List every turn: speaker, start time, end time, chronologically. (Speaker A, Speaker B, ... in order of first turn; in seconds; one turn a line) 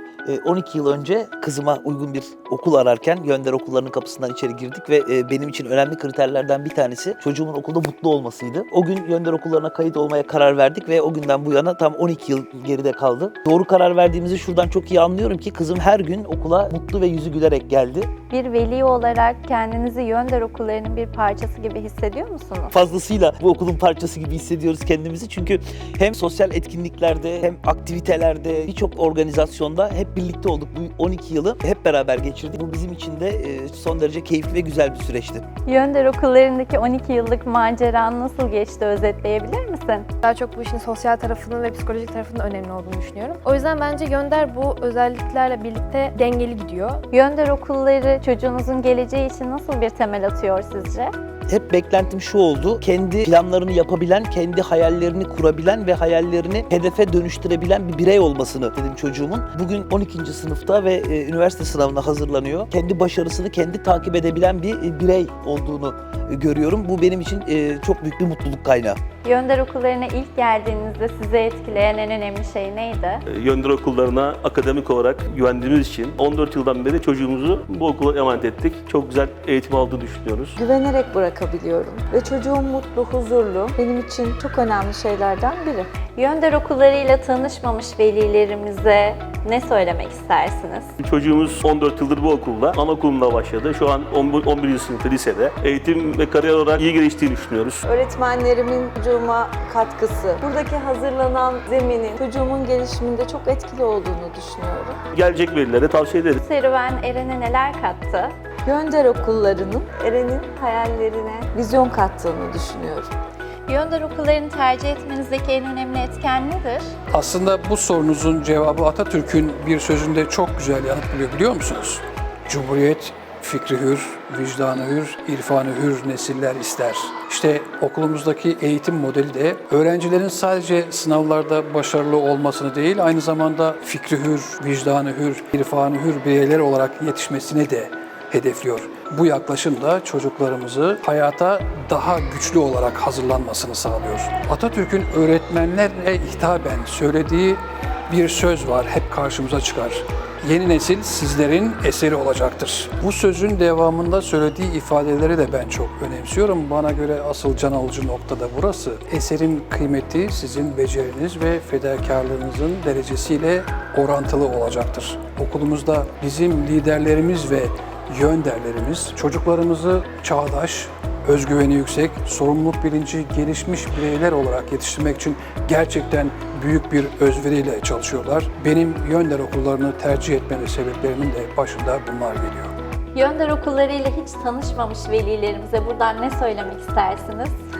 Speaker A: 0.2-18.1
Speaker B: 18.3-22.7
Speaker A: 22.7-35.4
Speaker B: 35.6-40.1
Speaker C: 40.2-47.0
Speaker B: 47.1-51.1
Speaker A: 51.5-69.0
Speaker B: 69.2-73.2
Speaker D: 73.3-80.6
Speaker E: 80.6-85.9
Speaker B: 86.1-90.9
Speaker D: 91.0-97.8
Speaker E: 97.9-105.0
Speaker D: 105.1-106.4
Speaker B: 106.4-108.3
Speaker E: 108.6-113.1
Speaker B: 113.7-116.9
Speaker F: 117.1-182.7
Speaker B: 183.1-187.6